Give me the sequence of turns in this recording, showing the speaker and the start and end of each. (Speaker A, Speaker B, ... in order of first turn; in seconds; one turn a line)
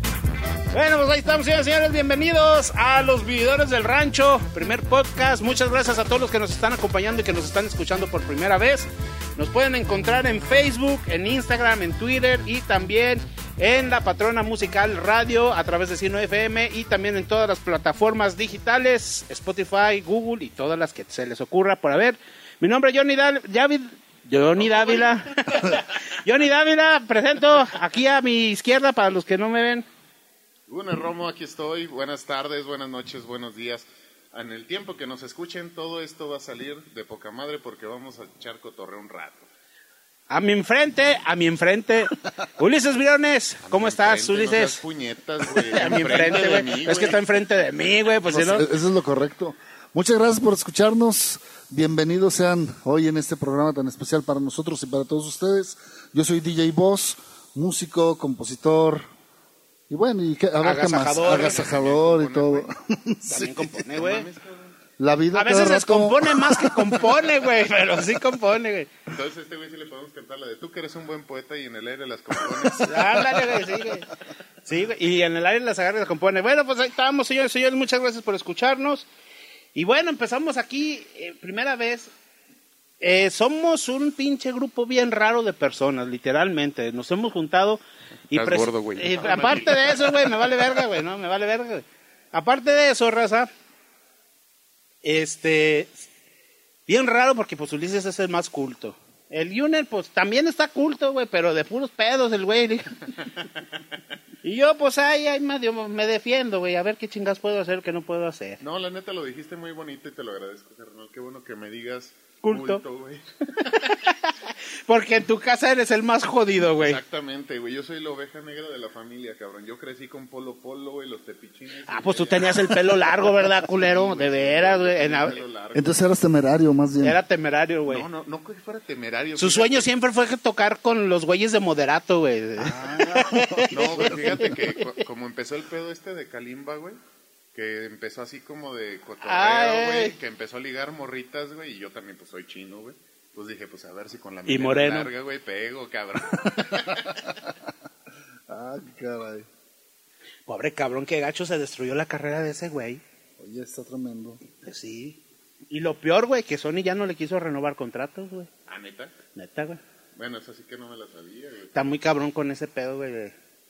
Speaker A: 0.7-29.8
Speaker B: 24.6-25.8
Speaker B: 30.7-39.5
Speaker A: 40.3-44.8
Speaker B: 43.6-47.2
Speaker A: 45.6-48.7
Speaker C: 48.3-59.1
Speaker C: 59.9-63.8
Speaker A: 60.6-61.6
Speaker B: 61.2-62.7
Speaker A: 63.2-64.2
Speaker B: 63.9-64.8
Speaker C: 65.0-67.0
Speaker A: 65.3-68.9
Speaker B: 69.1-73.4
Speaker A: 72.8-74.1
Speaker A: 74.6-79.1
Speaker A: 79.7-82.1
Speaker A: 83.0-93.5
Speaker B: 88.3-90.0
Speaker A: 95.0-96.1
Speaker A: 96.9-102.9
Speaker A: 104.4-108.6
Speaker B: 108.6-113.9
Speaker A: 112.4-112.8
Speaker A: 113.7-117.0
Speaker B: 116.8-126.0
Speaker A: 121.9-125.4
Speaker C: 125.7-127.2
Speaker A: 127.0-128.0
Speaker B: 127.9-129.9
Speaker A: 129.4-134.6
Speaker C: 132.6-134.6
Speaker B: 133.7-137.0
Speaker B: 137.5-147.3
Speaker A: 139.2-140.1
Speaker A: 144.5-145.1
Speaker C: 148.5-149.5
Speaker A: 150.5-153.0
Speaker C: 153.4-154.4
Speaker A: 154.6-158.5
Speaker B: 158.7-159.1
Speaker A: 159.3-159.8
Speaker B: 160.2-161.9
Speaker A: 161.7-163.3